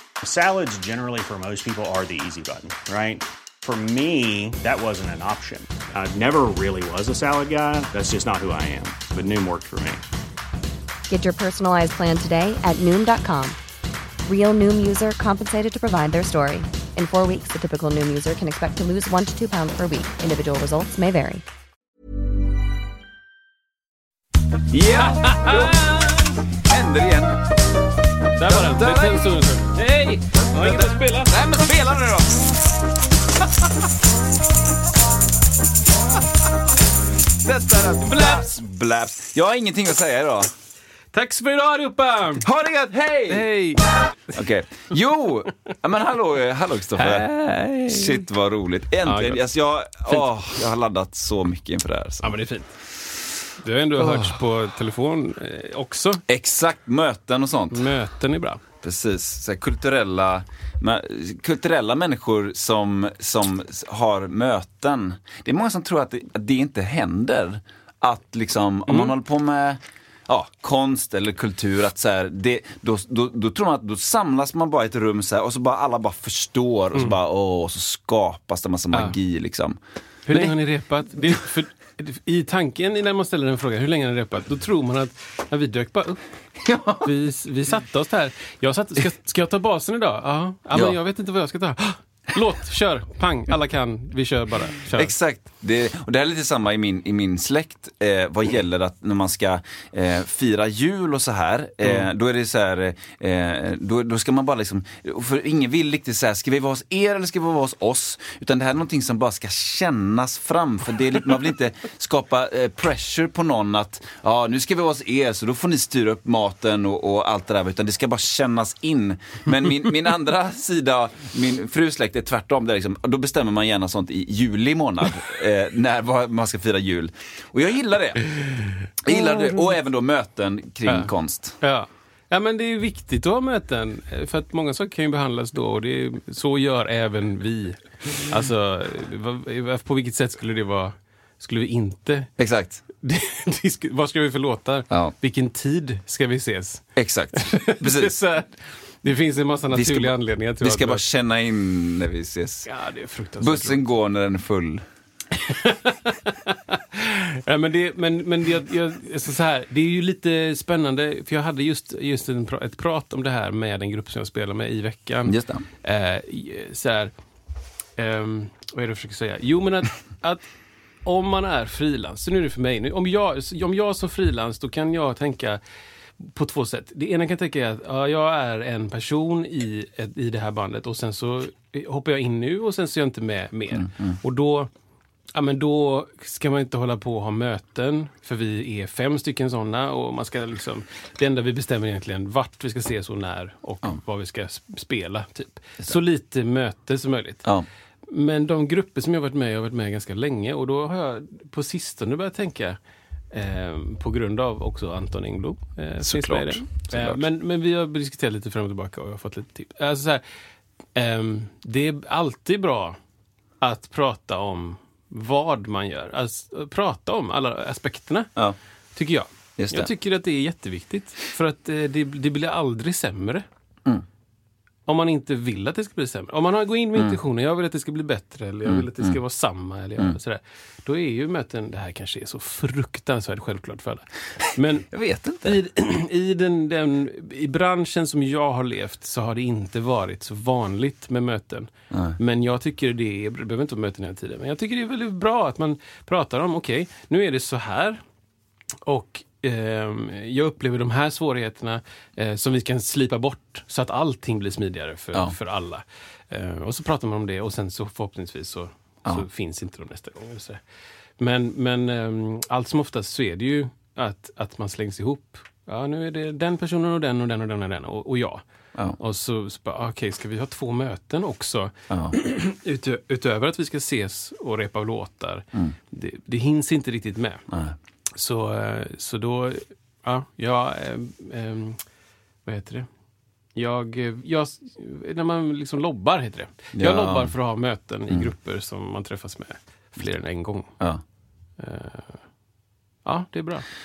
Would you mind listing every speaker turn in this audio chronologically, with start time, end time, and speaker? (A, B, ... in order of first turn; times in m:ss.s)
0:00.2-0:10.0 A
0:11.1-0:13.6 B
0:14.3-0:21.4 B
0:24.7-0:27.4 C
0:24.9-0:25.9 D
0:28.4-0:31.4 D
0:28.4-0:29.4 C
0:30.3-0:32.6 C
0:37.4-0:40.5 C
0:38.1-0:38.5 D
0:41.1-0:42.4 D
0:42.4-0:43.5 C
0:43.3-0:43.9 D
0:44.3-0:52.4 C
0:47.0-0:48.2 D
0:49.0-0:49.4 D
0:52.2-0:52.7 D
0:53.6-0:56.2 D
0:54.0-0:54.4 C
0:56.3-0:57.9 C
0:57.7-0:58.6 D
0:58.8-1:19.8 C
1:08.9-1:09.2 D
1:18.9-1:19.2 D
1:20.3-1:26.2 D
1:20.3-1:20.5 C
1:26.6-1:27.1 C
1:27.0-1:35.1 D
1:30.7-1:31.0 C
1:34.9-2:08.3 C
2:09.0-2:11.6 C
2:09.1-2:09.7 D
2:10.9-2:22.3 D
2:22.4-2:22.8 C
2:23.0-2:31.0 D
2:27.0-2:28.2 C
2:29.7-2:32.7 C
2:32.6-2:33.8 D
2:33.4-2:34.8 C
2:35.3-2:47.1 D
2:45.3-2:45.7 C
2:48.0-2:50.5 D
2:51.0-2:55.6 D
2:56.2-3:04.7 D
3:03.7-3:04.2 C
3:05.3-3:17.4 D
3:18.1-3:22.8 D
3:23.3-3:30.2 D
3:26.0-3:27.2 C
3:31.0-3:33.0 D
3:33.6-3:38.3 D
3:39.0-3:43.4 D
3:39.6-3:39.9 C
3:44.9-3:54.9 D
3:48.6-3:49.2 C
3:54.9-3:55.6 C
3:55.4-4:08.0 D
4:01.9-4:02.2 C
4:08.8-4:20.6 D
4:21.2-4:28.4 D
4:29.0-4:37.4 D
4:31.9-4:32.2 C
4:37.5-4:37.8 C
4:38.2-4:41.8 D
4:42.5-4:42.9 D
4:43.6-4:50.7 D
4:46.7-4:47.3 C
4:51.6-4:52.2 D
4:53.0-4:53.7 D